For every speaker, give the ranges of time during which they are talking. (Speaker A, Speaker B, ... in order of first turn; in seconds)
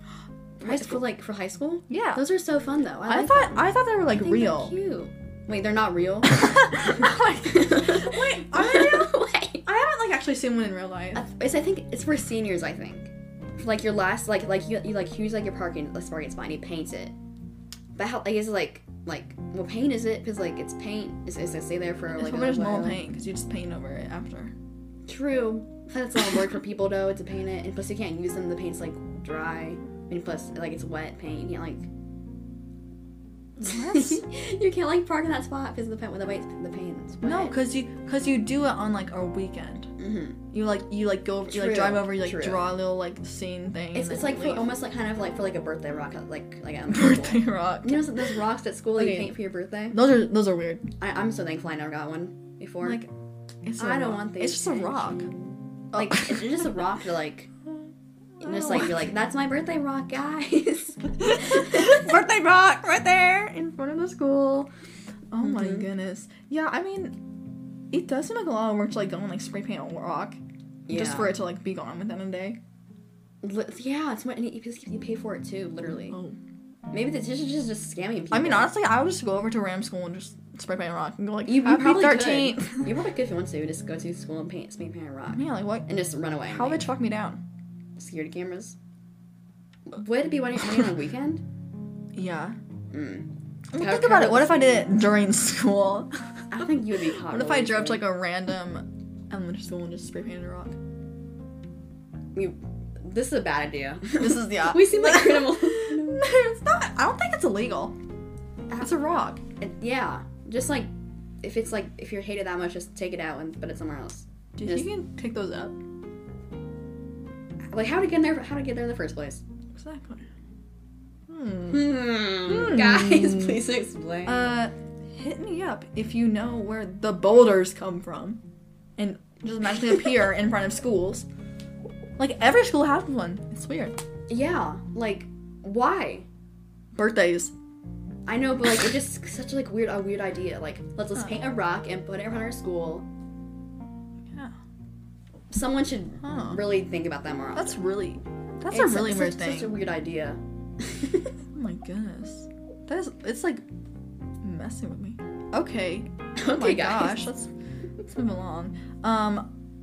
Speaker A: 0.6-3.6, 4.1-9.7, 11.2-17.1, 18.0-23.0, 25.1-31.9, 33.6-37.6, 40.0-40.4, 41.5-42.7, 43.9-50.0, 51.0-53.0, 53.8-55.4, 55.9-57.5, 58.4-62.0, 65.4-65.9, 70.9-71.3, 73.4-76.2, 76.9-78.7, 81.5-86.9, 88.0-88.8, 89.9-91.4, 92.9-94.9, 96.5-98.0, 102.3-106.2, 109.6-110.9, 111.4-114.9, 117.7-119.4, 121.7-124.5, 134.3-136.3, 138.3-143.1, 145.5-147.8, 148.7-151.3, 156.4-157.3
Speaker B: 0.7-1.0, 1.9-2.2, 3.0-4.7, 6.3-11.2, 22.1-24.5, 33.6-34.3, 37.2-39.9, 40.5-44.8, 46.9-48.4, 49.0-49.4, 49.9-50.9, 52.8-53.1, 53.6-55.3, 55.9-56.7, 58.4-59.0, 61.2-64.7, 65.3-67.2, 67.9-72.6, 76.1-76.4, 78.3-82.9, 85.3-85.9, 86.5-87.4, 92.1-92.6, 93.7-100.8, 104.2-108.0, 108.8-109.4, 114.6-115.8, 119.8-120.3, 121.3-123.6, 124.3-128.4, 129.0-131.3, 132.2-134.0, 136.9-137.5, 141.2-141.4, 144.3-144.6, 146.2-146.6, 147.6-149.8, 151.5-153.6, 154.4-157.5, 158.0-159.5